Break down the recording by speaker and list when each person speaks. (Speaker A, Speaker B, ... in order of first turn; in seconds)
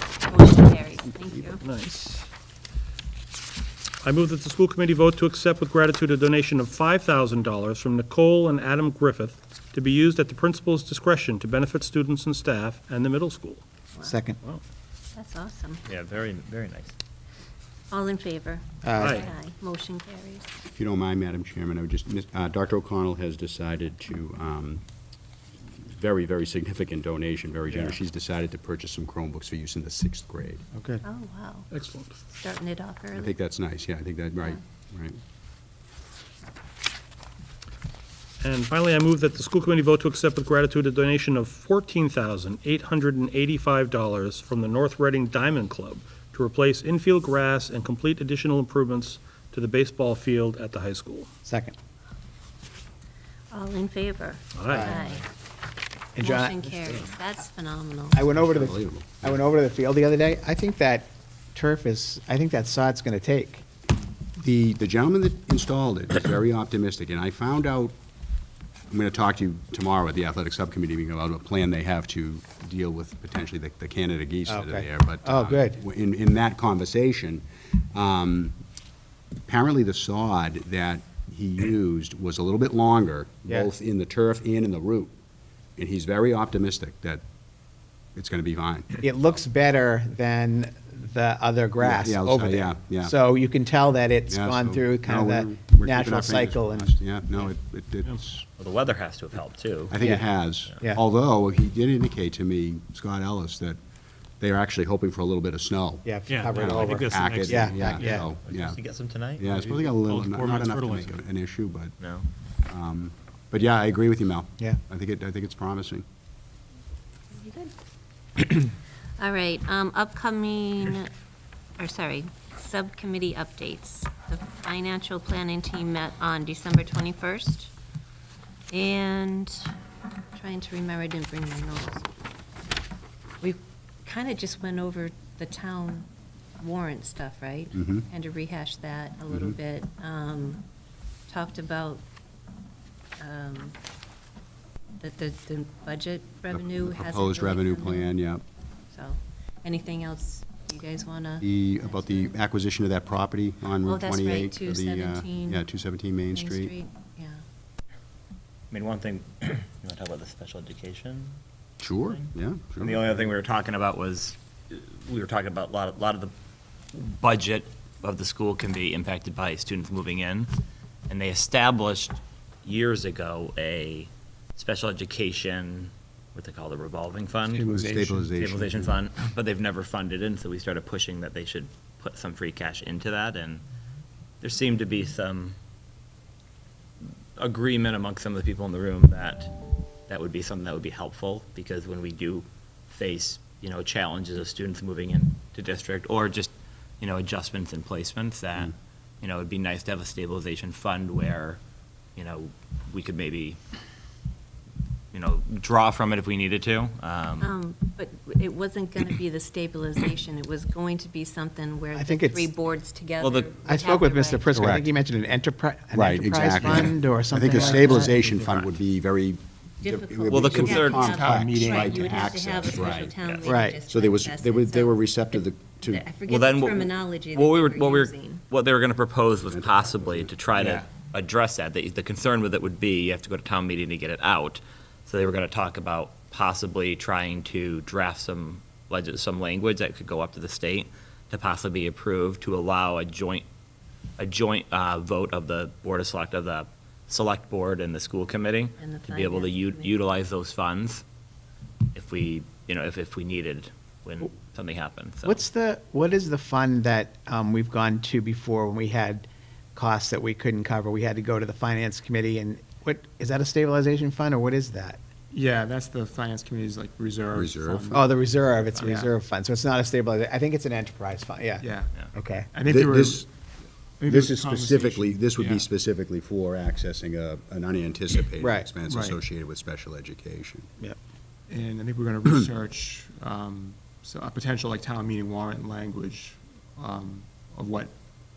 Speaker A: 0.2-1.6, 15.1-15.8, 17.9-20.5, 31.0-31.7, 32.3-33.3, 53.5-55.2, 56.2-58.2, 117.3-117.7, 119.2-121.1, 121.8-127.7, 128.7-129.7, 130.3-132.1, 133.4-136.1, 136.6-140.6, 141.3-142.0, 143.2-143.8, 145.0-148.1, 148.9-152.3, 153.8-155.6, 156.3-157.4, 207.4-214.7, 219.8-228.4, 248.8-249.9
Speaker B: 1.6-2.3, 4.0-13.6, 19.0-19.3, 31.7-32.1, 38.4-51.3, 54.5-55.0, 106.3-108.3, 110.0-111.2
Speaker C: 14.0-14.4, 18.8-19.2, 30.7-31.0, 51.4-51.7, 54.7-55.0, 56.1-57.1, 58.1-63.6, 74.5-75.8, 89.0-96.9, 100.0-100.3, 106.0-108.3, 211.9-212.5, 213.7-218.2, 223.4-223.8, 255.2-265.0, 267.9-272.5, 278.4-278.7
Speaker D: 15.8-16.9, 98.6-100.0, 108.4-109.9, 112.0-112.3, 158.7-161.4, 162.0-166.3, 166.9-170.5, 171.1-177.6, 178.3-183.6, 184.4-185.6, 187.4-189.5, 190.1-201.6, 202.2-203.6, 205.1-207.5, 213.2-213.5, 220.3-221.2, 222.7-223.6, 226.2-243.4, 244.2-251.0, 251.9-255.4
Speaker E: 20.7-24.8, 25.7-30.6, 33.1-35.2, 58.3-59.4, 64.4-67.9, 68.9-78.6, 79.5-85.1, 85.8-87.2, 88.1-88.9, 91.8-93.2, 94.3-98.5, 99.9-103.8, 104.4-108.8, 109.4-112.0, 112.7-116.0, 137.7-138.1, 139.3-139.6, 146.5-148.4, 151.4-156.7, 161.8-163.1, 177.7-179.0, 214.5-214.9, 215.9-223.2, 223.9-226.0, 229.5-230.3, 267.3-268.1, 272.7-273.3, 274.1-280.7
Speaker F: 177.5-178.3, 217.5-218.7, 220.6-222.3, 230.6-230.9, 265.3-269.1, 271.6-273.3, 274.0-275.7, 278.9-279.2, 281.5-287.9